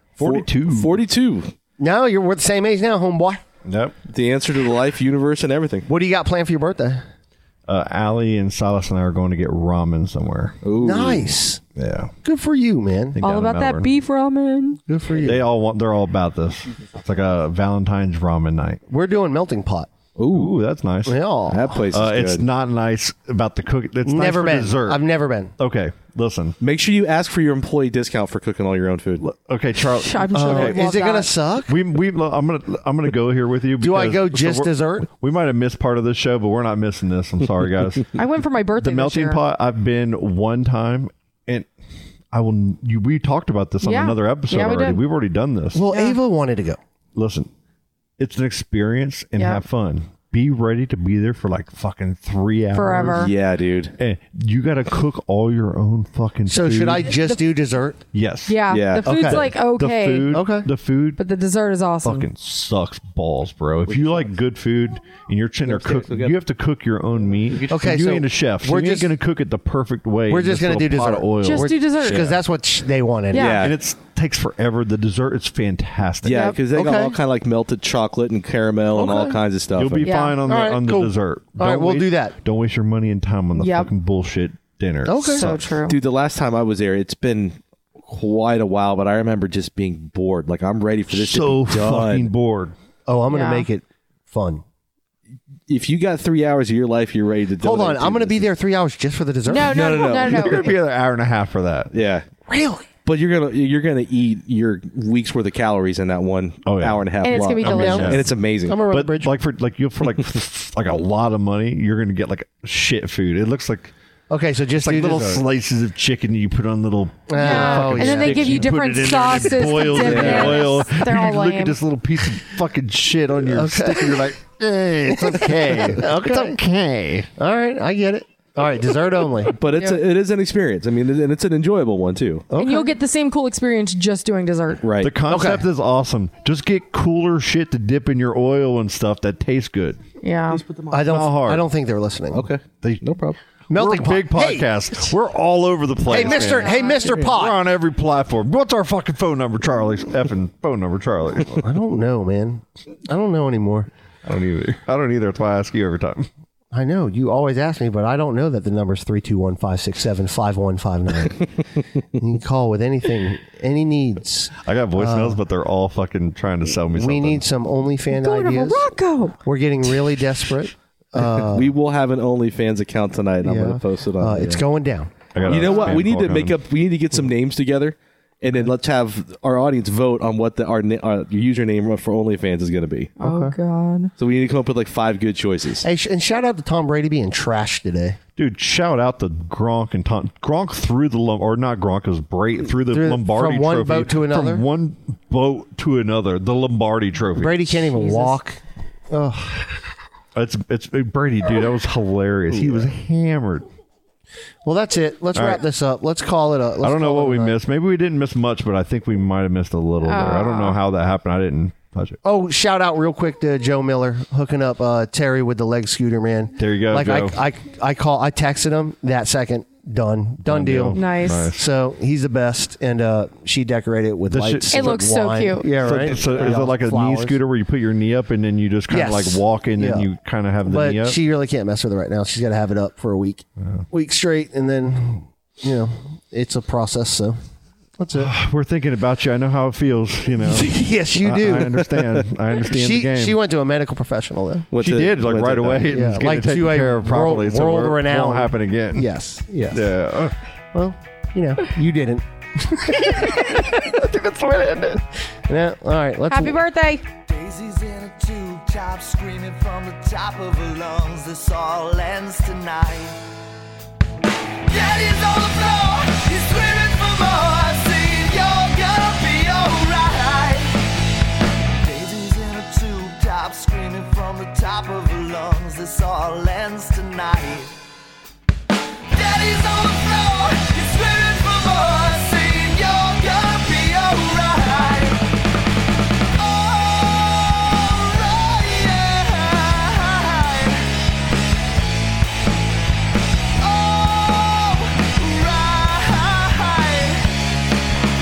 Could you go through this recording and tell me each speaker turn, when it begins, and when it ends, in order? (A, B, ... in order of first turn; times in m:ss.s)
0:00.2-0:01.0 A
0:00.2-0:01.5 B
0:01.8-0:03.4 C
0:03.7-0:04.0 A
0:04.1-0:05.9 B
0:05.9-0:07.0 C
0:07.7-0:10.6 A
0:10.6-0:12.1 B
0:10.8-0:11.6 C
0:12.2-0:13.2 C
0:13.2-0:14.8 D
0:13.2-0:13.9 A
0:14.9-0:15.4 C
0:15.2-0:18.8 A
0:18.9-0:19.9 C
0:20.2-0:20.5 B
0:20.3-0:21.2 A
0:21.1-0:21.7 C
0:21.5-0:22.4 B
0:21.9-0:25.0 A
0:24.0-0:25.5 C
0:25.6-0:26.6 A
0:26.6-0:29.2 B
0:29.2-0:30.9 A
0:30.0-0:31.3 D
0:30.3-0:31.7 C
0:31.7-0:38.1 A
0:33.8-0:35.1 C
0:38.2-0:39.4 D
0:38.8-0:41.7 A
0:42.3-0:45.8 A
0:43.8-0:45.0 D
0:45.7-0:46.8 C
0:45.9-0:46.2 D
0:47.2-0:47.5 A
0:48.2-0:53.3 A
0:49.4-0:49.6 D
0:52.7-0:53.3 D
0:53.1-0:54.0 B
0:54.0-0:57.2 A
0:56.5-0:58.0 C
0:58.1-1:01.2 A
0:58.5-1:00.4 D
0:58.7-0:59.1 B
0:59.0-0:59.5 C
1:00.3-1:00.7 C
1:01.2-1:02.3 D
1:02.0-1:12.4 A
1:03.9-1:04.3 B
1:05.7-1:06.4 B
1:07.5-1:07.9 B
1:07.7-1:09.1 C
1:10.3-1:13.6 C
1:11.4-1:12.3 D
1:13.3-1:13.7 D
1:13.3-1:13.7 B
1:13.6-1:16.5 A
1:16.2-1:20.1 B
1:16.3-1:16.6 D
1:16.7-1:17.2 C
1:19.0-1:19.4 C
1:19.8-1:25.5 A
1:20.0-1:20.4 D
1:20.4-1:22.4 C
1:23.6-1:23.9 D
1:25.1-1:25.7 C
1:25.3-1:26.0 D
1:25.9-1:32.3 B
1:31.1-1:32.8 A
1:33.1-1:34.6 C
1:33.3-1:33.7 D
1:35.7-1:38.5 B
1:37.6-1:40.1 C
1:39.5-1:40.7 D
1:39.6-1:40.7 B
1:40.2-1:42.0 A
1:41.9-1:42.3 B
1:42.5-1:42.9 C
1:43.0-1:48.8 B
1:46.7-1:48.3 A
1:47.2-1:48.2 D
1:47.7-1:49.3 C
1:48.9-1:53.9 A
1:54.3-1:55.4 C
1:54.8-2:07.3 A
1:57.3-1:58.7 C
1:57.4-2:01.8 D
1:58.1-1:58.6 B
2:00.0-2:00.8 B
2:03.4-2:04.2 C
2:05.1-2:06.6 C
2:07.4-2:09.5 C
2:09.6-2:12.5 B
2:12.5-2:12.9 C
2:12.6-2:14.8 D
2:14.8-2:15.1 B
2:15.0-2:20.0 A
2:15.3-2:15.7 C
2:20.2-2:20.6 D
2:20.5-2:20.9 B
2:20.9-2:22.4 C
2:21.0-2:21.6 A
2:22.3-2:23.4 B
2:23.7-2:25.0 C
2:23.8-2:31.6 A
2:26.1-2:27.6 C
2:26.5-2:27.0 D
2:31.5-2:33.9 C
2:34.2-2:36.3 A
2:36.7-2:41.4 C
2:42.2-2:45.4 C
2:44.6-2:47.4 A
2:46.9-2:51.7 C
2:48.1-2:49.4 D
2:51.5-2:54.6 B
2:53.4-2:55.6 C
2:55.3-2:56.6 A
2:55.5-3:03.1 B
3:03.2-3:04.1 D
3:03.2-3:03.6 C
3:04.2-3:05.8 B
3:05.8-3:08.2 C
3:08.4-3:18.0 A
3:12.9-3:14.6 C
3:17.4-3:19.8 C
3:20.4-3:23.7 A
3:24.6-3:27.6 C
3:25.3-3:25.6 A
3:26.8-3:32.2 A
3:30.0-3:30.8 D
3:32.2-3:47.4 C
3:36.6-3:37.4 A
3:40.4-3:41.6 A
3:40.9-3:41.5 D
3:44.3-3:45.0 A
3:44.7-3:45.9 D
3:45.7-3:51.2 A
3:48.9-3:50.1 C
3:50.6-3:57.4 C
3:58.0-3:58.3 C
3:58.2-4:03.4 A
4:00.4-4:01.8 C
4:02.7-4:04.7 C
4:04.7-4:05.9 B
4:04.8-4:09.1 A
4:05.9-4:09.9 C
4:09.7-4:10.4 A
4:10.7-4:13.6 C
4:13.0-4:15.0 A
4:15.5-4:16.6 C
4:16.3-4:17.0 D
4:17.3-4:23.2 E
4:24.7-4:30.8 E
4:31.7-4:37.8 E
4:39.1-4:45.2 E
4:46.4-4:50.8 E
4:53.6-4:57.3 E